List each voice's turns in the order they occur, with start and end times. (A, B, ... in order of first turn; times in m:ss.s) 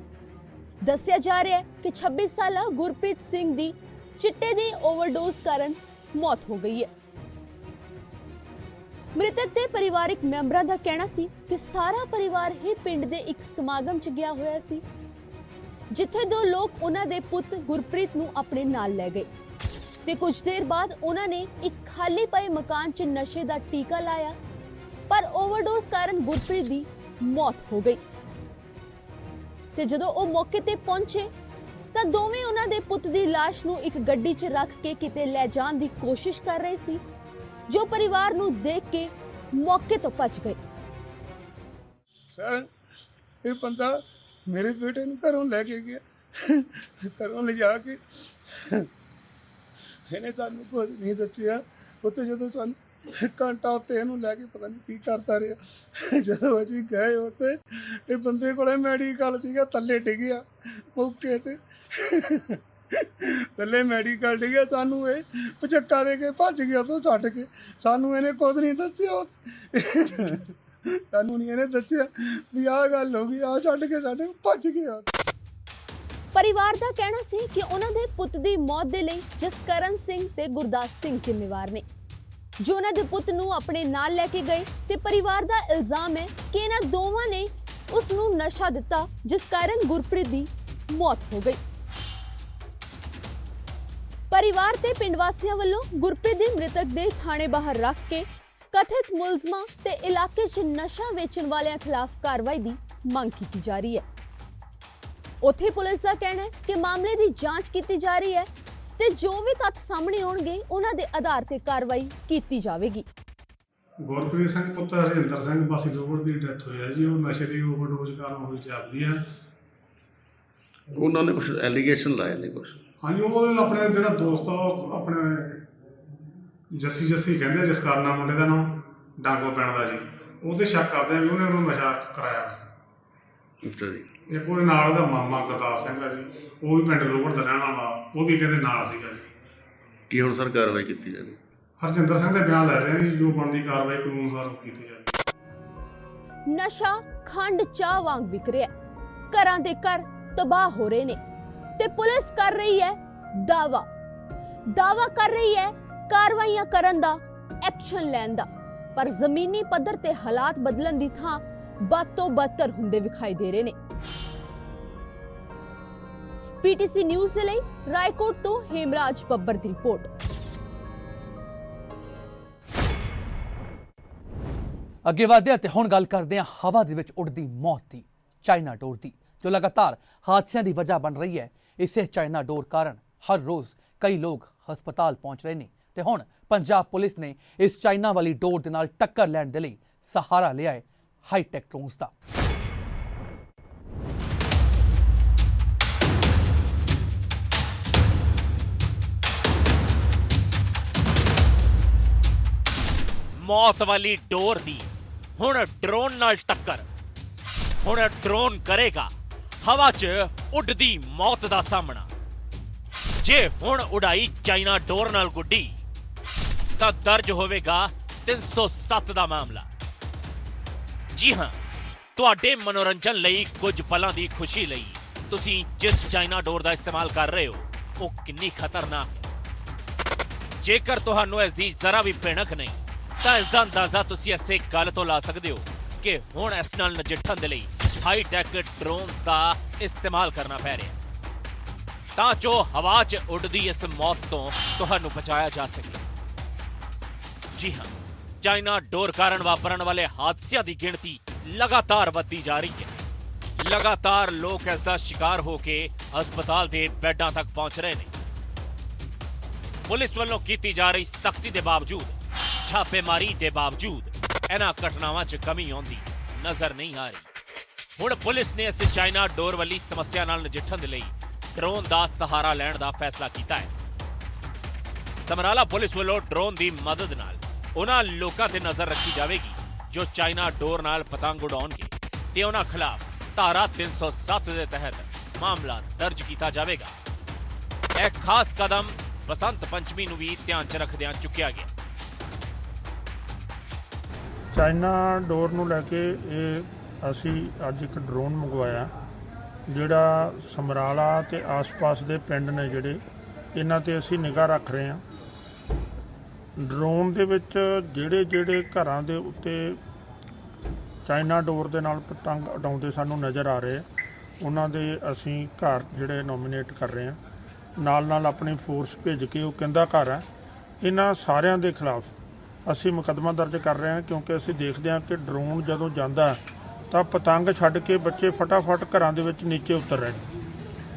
0:00.8-0:06.9 A
0:09.2-0:14.8 A
0:15.9-0:19.3 A
0:20.0-0:24.4 A
0:25.1-0:28.0 A
0:29.8-0:31.3 A
0:31.9-0:37.0 A
0:37.7-0:40.6 A
0:42.3-0:42.7 B
0:43.4-0:43.9 B
0:44.5-0:48.8 B
0:50.1-0:57.6 B
0:58.1-1:00.4 B
1:01.0-1:02.6 B
1:03.2-1:10.4 B
1:11.1-1:15.1 B
1:16.3-1:21.8 A
1:22.6-1:31.6 A
1:34.3-1:44.0 A
1:45.4-1:53.0 A
1:54.1-1:59.2 C
2:00.9-2:02.7 D
2:03.0-2:05.5 C
2:06.8-2:12.6 C
2:13.6-2:14.0 D
2:14.3-2:19.2 C
2:20.1-2:21.4 D
2:21.8-2:25.1 C
2:26.5-2:28.7 A
2:29.3-2:31.2 A
2:31.8-2:33.9 A
2:34.8-2:43.7 A
2:46.6-2:50.1 A
2:55.0-3:12.1 E
3:23.3-3:26.8 F
3:27.8-3:29.1 F
3:29.6-3:32.1 F
3:33.2-3:35.8 F
3:36.8-3:39.7 F
3:41.1-3:41.6 F
3:42.2-3:49.2 F
3:50.6-4:01.0 F
4:02.2-4:06.0 F
4:07.6-4:12.9 F
4:13.6-4:18.1 F
4:19.9-4:27.2 F
4:28.0-4:33.7 F
4:35.2-4:46.9 F
4:48.0-4:51.7 F
4:54.5-4:58.9 G
4:59.7-5:03.0 G
5:03.5-5:05.0 G
5:06.6-5:09.8 G
5:11.0-5:13.8 G
5:14.4-5:17.2 G
5:17.8-5:20.2 G
5:20.8-5:22.1 G
5:22.6-5:30.2 G